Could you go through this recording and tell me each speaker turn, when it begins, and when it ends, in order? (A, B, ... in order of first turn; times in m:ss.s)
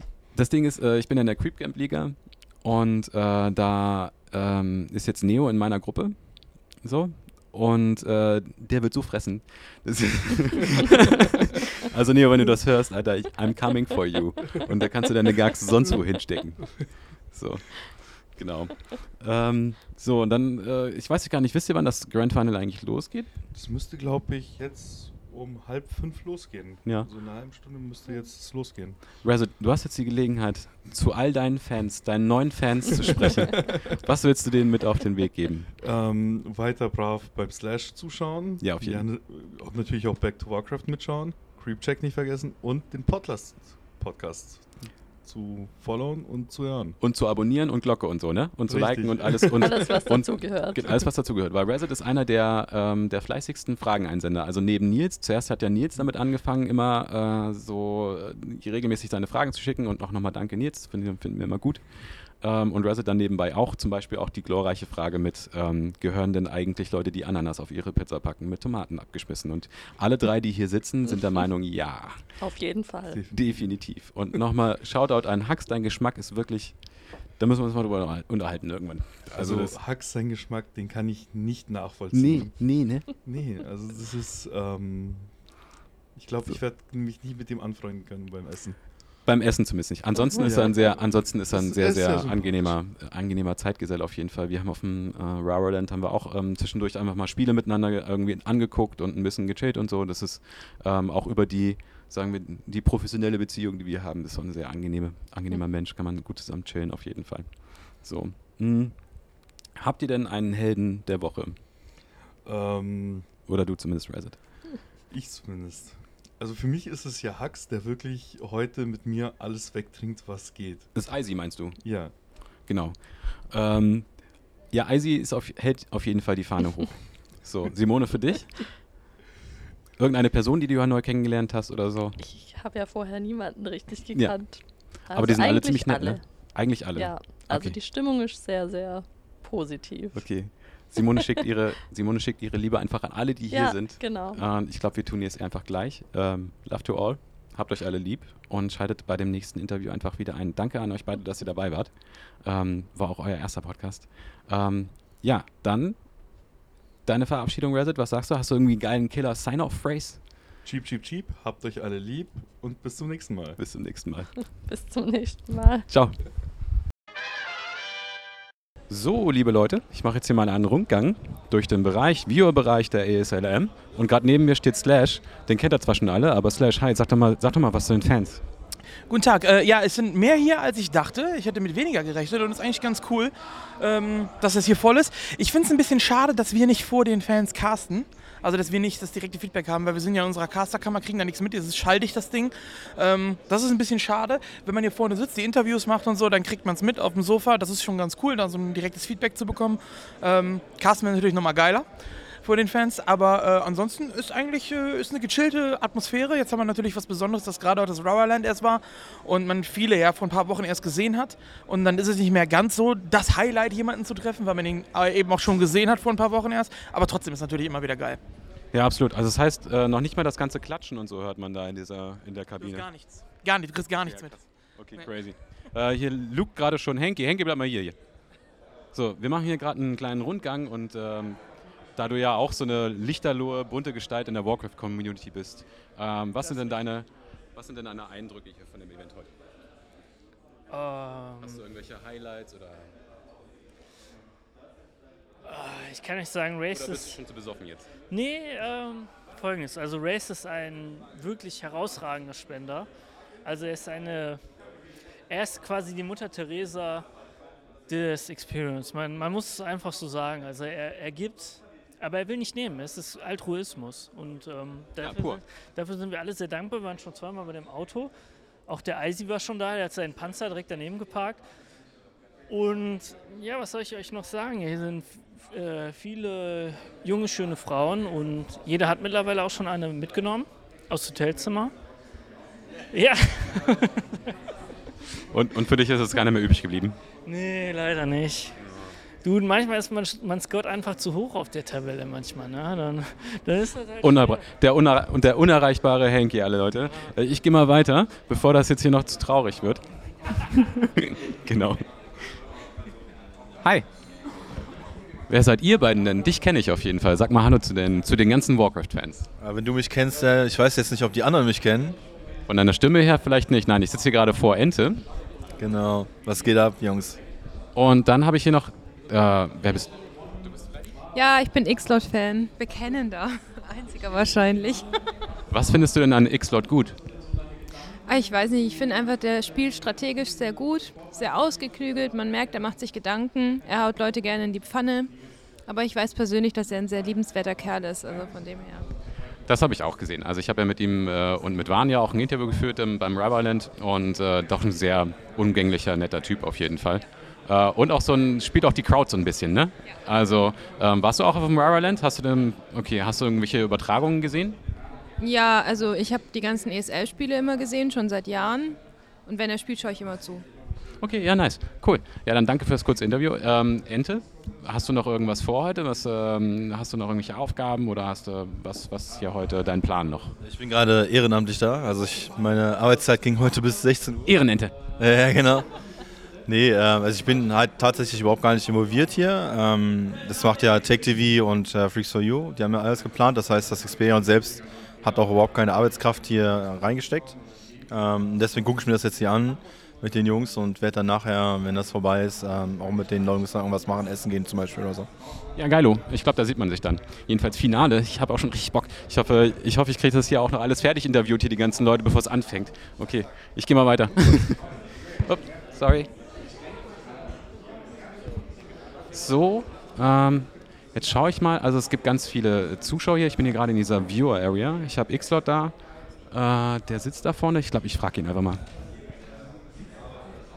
0:00.3-0:23.3 A
0:23.5-0:29.0 B
0:29.2-0:35.7 A
0:35.8-0:47.0 B
0:38.6-0:39.0 A
0:47.0-1:12.4 A
0:48.7-0:50.3 B
0:49.6-0:51.1 C
1:12.4-1:13.2 C
1:13.1-1:13.8 B
1:13.3-1:19.8 A
1:19.3-1:25.5 B
1:22.1-1:23.0 A
1:26.1-1:28.9 B
1:29.2-1:51.6 A
1:30.3-1:32.8 B
1:52.4-1:53.3 B
1:53.4-1:54.7 A
1:55.1-2:02.1 B
2:00.9-2:08.8 A
2:10.0-2:12.2 A
2:12.2-2:21.2 C
2:14.1-2:17.8 A
2:20.1-2:40.2 A
2:23.5-2:24.4 C
2:40.6-2:43.6 B
2:43.6-2:44.5 A
2:44.5-2:45.9 C
2:45.9-2:46.4 A
2:48.9-2:58.4 A
2:59.1-3:21.8 D
3:22.4-3:38.2 D
3:38.7-3:43.0 A
3:42.6-3:45.1 D
3:44.0-3:48.0 A
3:48.9-3:51.4 A
3:51.9-3:59.3 A
3:56.4-3:56.8 E
4:00.7-4:01.6 E
4:01.4-4:02.9 A
4:05.4-4:07.2 E
4:06.7-4:07.9 A
4:08.1-4:12.9 E
4:13.4-4:14.4 E
4:15.3-4:17.0 E
4:17.9-4:28.1 E
4:25.0-4:25.4 A
4:28.6-4:31.4 E
4:32.5-4:41.7 E
4:42.9-4:43.9 E
4:45.3-4:47.0 A
4:47.2-4:48.5 E
4:49.2-4:54.4 E
4:54.0-5:00.4 A
5:01.0-5:02.4 A
5:05.3-5:09.3 A
5:09.4-5:12.0 F
5:12.5-5:15.0 A
5:15.6-5:17.2 F
5:17.7-5:19.9 A
5:21.1-5:24.9 G
5:25.5-5:27.0 A
5:28.1-5:38.8 G
5:39.4-5:54.6 A
5:55.2-6:00.4 G
6:01.0-6:10.3 A
6:10.4-6:15.7 F
6:14.2-6:14.7 A
6:16.5-6:35.1 F
6:35.5-6:46.1 A
6:49.1-6:55.8 A
6:56.3-6:58.6 A